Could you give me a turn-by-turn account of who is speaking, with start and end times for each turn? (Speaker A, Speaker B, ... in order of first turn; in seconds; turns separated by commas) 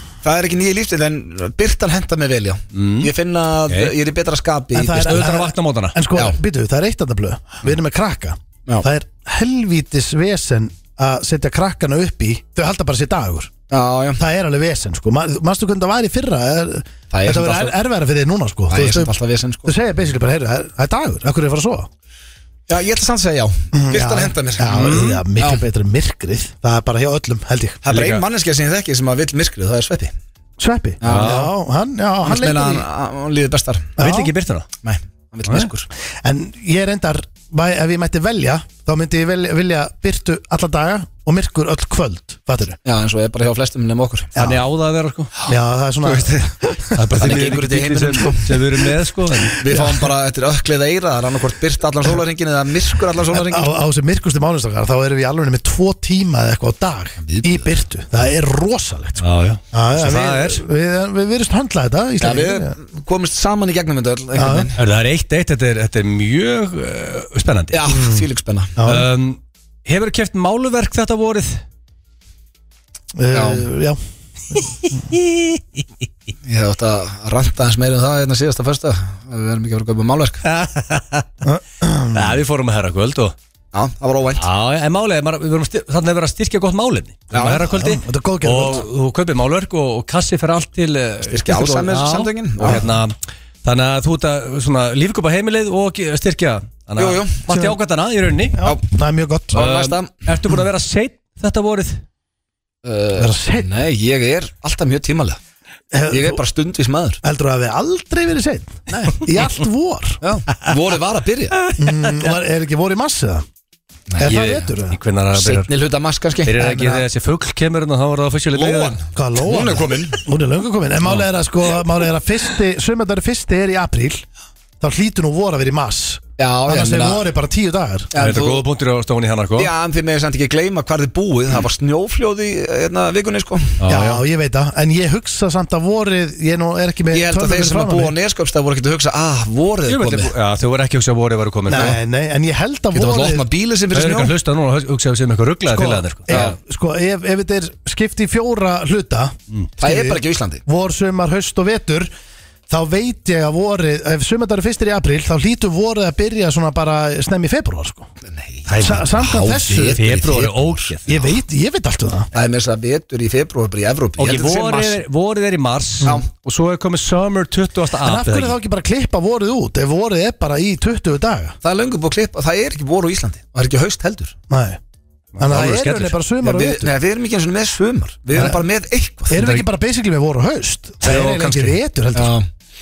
Speaker A: 0.2-5.3, Speaker B: 2.7-3.1, Speaker C: 4.7-13.5, Speaker B: 4.8-6.0, Speaker A: 13.7-14.2, Speaker C: 14.2-19.1, Speaker A: 17.1-17.8, Speaker A: 18.7-19.8, Speaker C: 19.6-21.9, Speaker A: 22.7-25.6, Speaker C: 23.7-27.8, Speaker B: 24.7-25.2, Speaker A: 27.8-30.1, Speaker B: 27.9-28.2, Speaker C: 30.6-32.9, Speaker A: 31.0-31.5, Speaker B: 31.0-31.5, Speaker A: 32.2-34.0, Speaker C: 34.0-34.3, Speaker B: 34.0-34.7, Speaker A: 34.8-35.9, Speaker C: 36.2-42.8, Speaker A: 42.9-44.3, Speaker C: 44.4-44.6, Speaker B: 44.4-45.3, Speaker C: 45.5-46.5, Speaker A: 46.0-48.7, Speaker B: 46.9-49.6, Speaker A: 49.5-53.7, Speaker C: 53.3-62.8, Speaker A: 57.2-57.7, Speaker B: 59.2-60.6, Speaker A: 62.2-64.8, Speaker C: 64.4-64.7, Speaker B: 64.8-67.8, Speaker A: 67.7-68.8, Speaker C: 67.9-68.2, Speaker C: 68.8-69.1, Speaker B: 68.8-71.6, Speaker C: 73.2-74.0, Speaker A: 73.3-73.7, Speaker B: 74.8-75.8, Speaker A: 76.4-80.4, Speaker B: 80.4-81.3, Speaker C: 81.4-82.4, Speaker B: 82.1-83.3, Speaker A: 83.7-84.4, Speaker B: 84.4-98.6, Speaker A: 87.3-87.7, Speaker C: 87.7-88.9, Speaker A: 91.3-92.8, Speaker A: 97.0-97.4, Speaker C: 97.5-97.8, Speaker C: 98.5-99.6, Speaker A: 99.5-100.1, Speaker B: 99.5-102.0, Speaker A: 102.8-105.4, Speaker C: 103.2-103.7, Speaker C: 105.9-106.4, Speaker A: 106.1-107.2, Speaker C: 107.2-110.2, Speaker A: 110.2-111.6, Speaker B: 111.7-112.3, Speaker C: 111.8-113.5, Speaker A: 114.1-114.4, Speaker C: 114.2-115.0, Speaker B: 114.2-115.7, Speaker A: 115.4-116.6, Speaker B: 116.5-119.0, Speaker C: 116.6-117.1, Speaker A: 118.5-120.2, Speaker C: 119.1-124.2, Speaker C: 124.8-128.1, Speaker A: 126.4-127.2, Speaker A: 128.1-128.6, Speaker B: 128.2-129.7, Speaker A: 129.6-133.8, Speaker B: 133.8-134.2, Speaker C: 133.9-138.1, Speaker A: 137.1-140.3, Speaker B: 139.9-142.0, Speaker C: 141.7-143.4, Speaker A: 142.9-144.3, Speaker B: 143.9-146.4, Speaker C: 145.7-152.1, Speaker A: 146.3-146.6, Speaker A: 149.8-150.6, Speaker C: 152.7-158.1, Speaker A: 158.2-160.9, Speaker B: 158.7-159.2, Speaker C: 158.8-160.0, Speaker B: 159.9-161.3, Speaker C: 161.1-162.3, Speaker A: 162.3-165.0, Speaker B: 164.2-168.6, Speaker C: 168.0-171.6, Speaker A: 171.6-174.4, Speaker C: 174.5-174.8, Speaker B: 175.4-176.2, Speaker C: 175.4-176.9, Speaker A: 176.4-179.4, Speaker C: 179.3-182.3, Speaker B: 179.4-179.7, Speaker A: 181.0-182.5